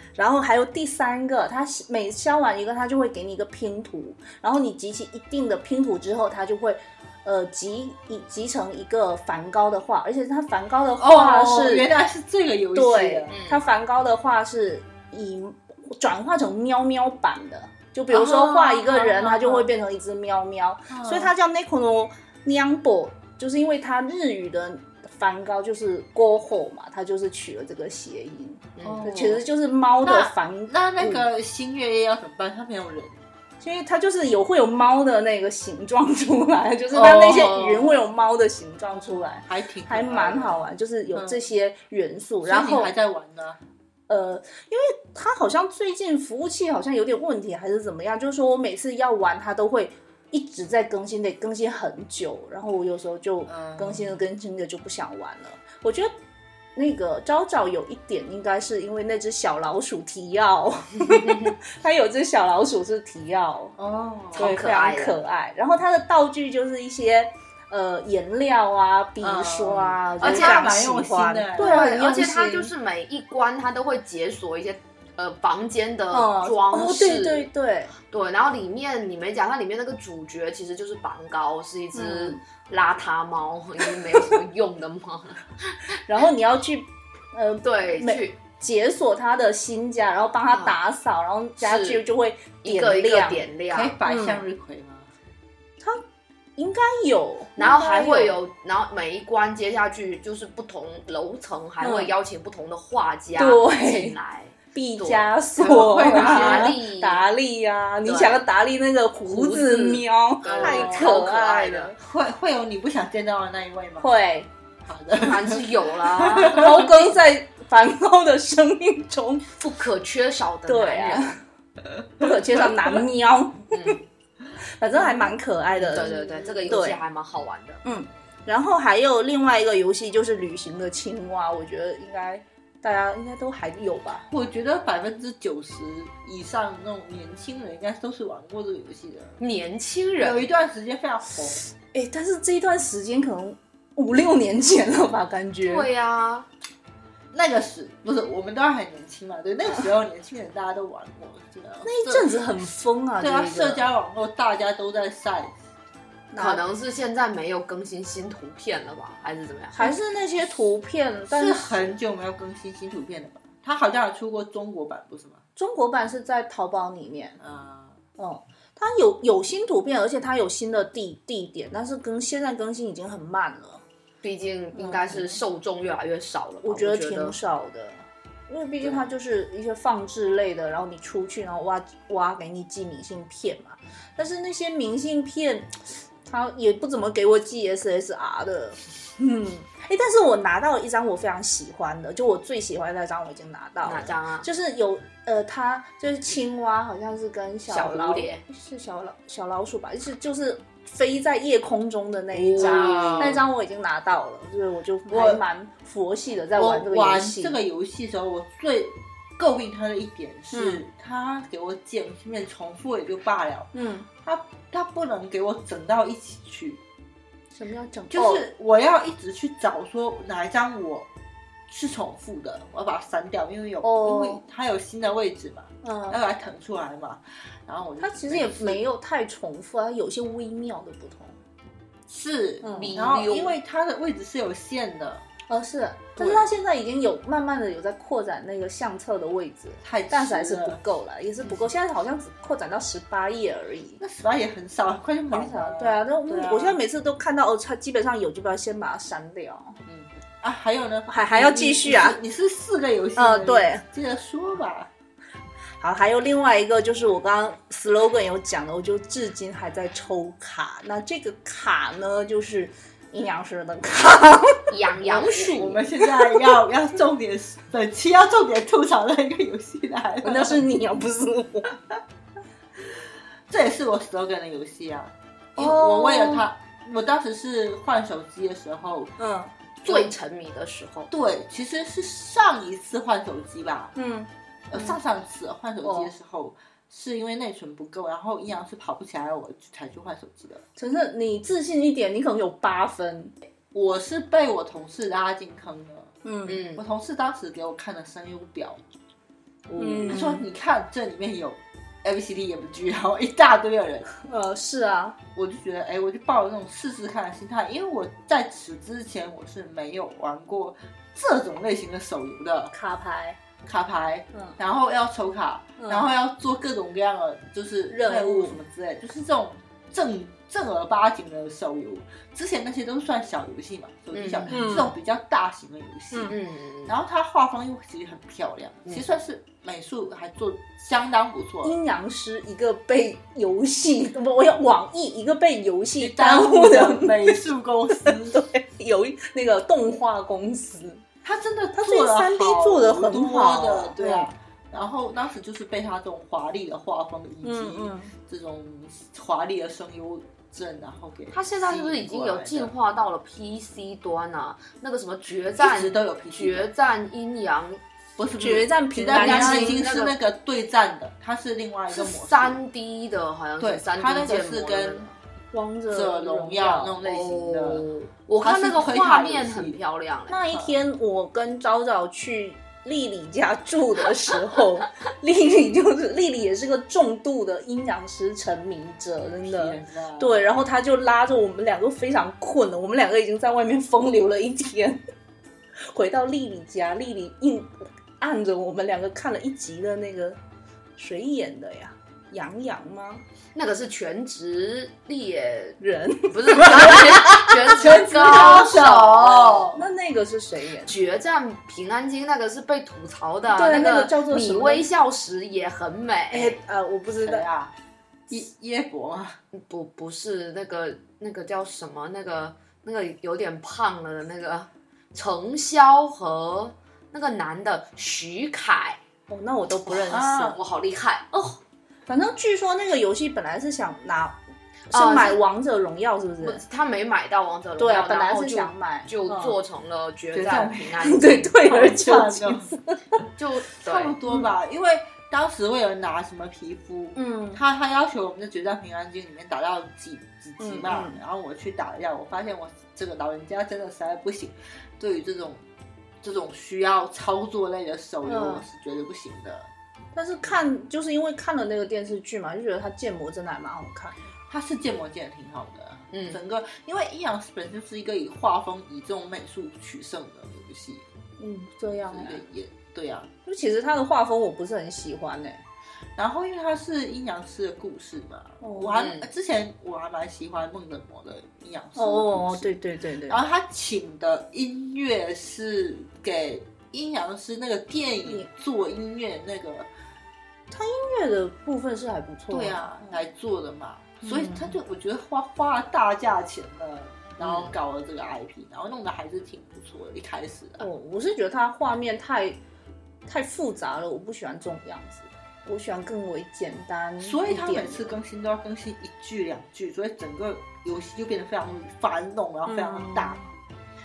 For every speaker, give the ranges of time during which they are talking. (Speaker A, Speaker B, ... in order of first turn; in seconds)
Speaker A: 0.1-11.9, 12.7-30.7, 33.6-42.9, 44.1-56.1, 56.7-63.7, 64.3-72.7, 76.1-77.9, 81.9-82.4, 86.0-93.4, 94.0-94.4, 96.5-98.3, 101.8-102.1, 103.3-104.2, 104.7-112.0, 114.0-114.5, 116.3-119.4, 120.7-121.4, 122.2-124.0, 124.8-127.0, 127.8-134.3, 141.9-145.9, 151.8-153.8, 156.3-156.6, 159.7-161.9, 165.6-167.4, 168.2-173.8, 174.8-175.2, 176.6-207.6, 210.5-210.8, 213.7-214.1, 217.5-218.4, 223.8-224.4, 225.8-226.2, 228.0-231.3, 232.6-232.9, 235.5-244.0, 245.3-249.8, 251.1-252.2, 253.2-253.8, 255.8-266.6, 270.2-271.8, 275.6-276.4, 279.2-279.5, 283.9-284.3, 285.8-286.1, 290.8-293.3, 296.2-296.6, 299.8-300.4, 304.2-305.2, 312.7-313.4, 315.8-316.1, 317.9-318.6, 324.5-324.9, 331.6-341.0, 341.7-344.3, 347.4-348.1, 358.4-359.9, 365.5-367.0, 370.3-385.0, 385.9-390.4, 391.0-393.2, 395.8-399.0, 399.7-400.9, 403.5-404.9, 406.3-407.5, 419.3-420.6, 422.1-426.6, 427.8-429.6, 431.0-433.2, 437.1-437.6, 440.6-441.2, 448.2-448.6, 450.1-454.2, 461.4-462.4, 463.4-465.6, 468.6-469.0, 471.9-473.4, 480.7-483.1, 484.2-484.8, 490.8-492.6, 493.3-498.2, 502.6-503.5
Speaker B: 11.0-13.3, 18.1-19.7, 20.9-21.3, 28.8-29.4, 30.0-33.2, 36.9-37.8, 39.5-40.6, 41.1-41.4, 42.4-43.6, 53.5-54.2, 63.8-64.5, 69.2-72.0, 93.7-95.1, 105.5-106.8, 110.5-111.1, 112.0-114.1, 114.8-116.9, 125.7-126.7, 134.3-139.4, 140.2-141.6, 147.3-152.3, 153.2-155.5, 161.3-165.4, 167.4-168.0, 202.6-203.4, 205.1-205.4, 206.6-213.7, 214.2-216.8, 218.1-221.1, 221.7-228.8, 232.1-235.2, 236.2-236.4, 239.8-240.8, 244.0-246.8, 249.8-254.9, 265.5-270.6, 273.5-279.1, 279.9-280.1, 281.1-283.9, 284.7-290.6, 293.7-296.1, 296.8-298.8, 300.0-304.1, 305.3-312.7, 313.6-331.8, 336.0-338.4, 341.2-352.7, 355.6-356.7, 358.2-362.6, 363.6-365.1, 365.9-367.9, 368.4-369.8, 370.5-370.8, 379.4-380.5, 397.7-399.8, 407.1-407.7, 408.3-409.4, 420.1-420.5, 430.3-431.0, 431.6-432.7, 433.8-445.6, 446.2-449.7, 454.5-461.0, 462.1-463.3, 466.1-472.7, 473.3-479.9, 482.5-490.9, 497.2-503.5
Speaker C: 13.3-13.6, 28.8-29.1, 37.0-37.9, 61.0-61.5, 64.3-65.2, 70.2-70.8, 71.6-77.5, 78.1-85.8, 87.6-88.4, 90.5-90.8, 91.6-92.0, 92.6-93.9, 97.6-105.3, 106.0-107.2, 108.0-108.4, 109.2-111.9, 115.2-116.9, 119.6-121.4, 123.7-124.0, 125.8-127.8, 139.4-140.5, 145.6-146.5, 156.3-159.9, 174.2-177.4, 193.8-194.5, 197.7-198.4, 202.3-203.4, 232.7-233.6, 264.7-265.8, 279.8-281.1, 296.4-296.8, 299.7-300.1, 324.1-324.8, 326.3-326.9, 351.3-357.8, 359.1-360.1, 361.9-365.1, 367.0-370.4, 393.5-395.8, 396.3-399.7, 400.8-406.6, 409.5-419.0, 419.9-421.6, 424.9-425.4, 426.4-431.6, 433.4-434.2, 456.1-456.4, 468.9-469.3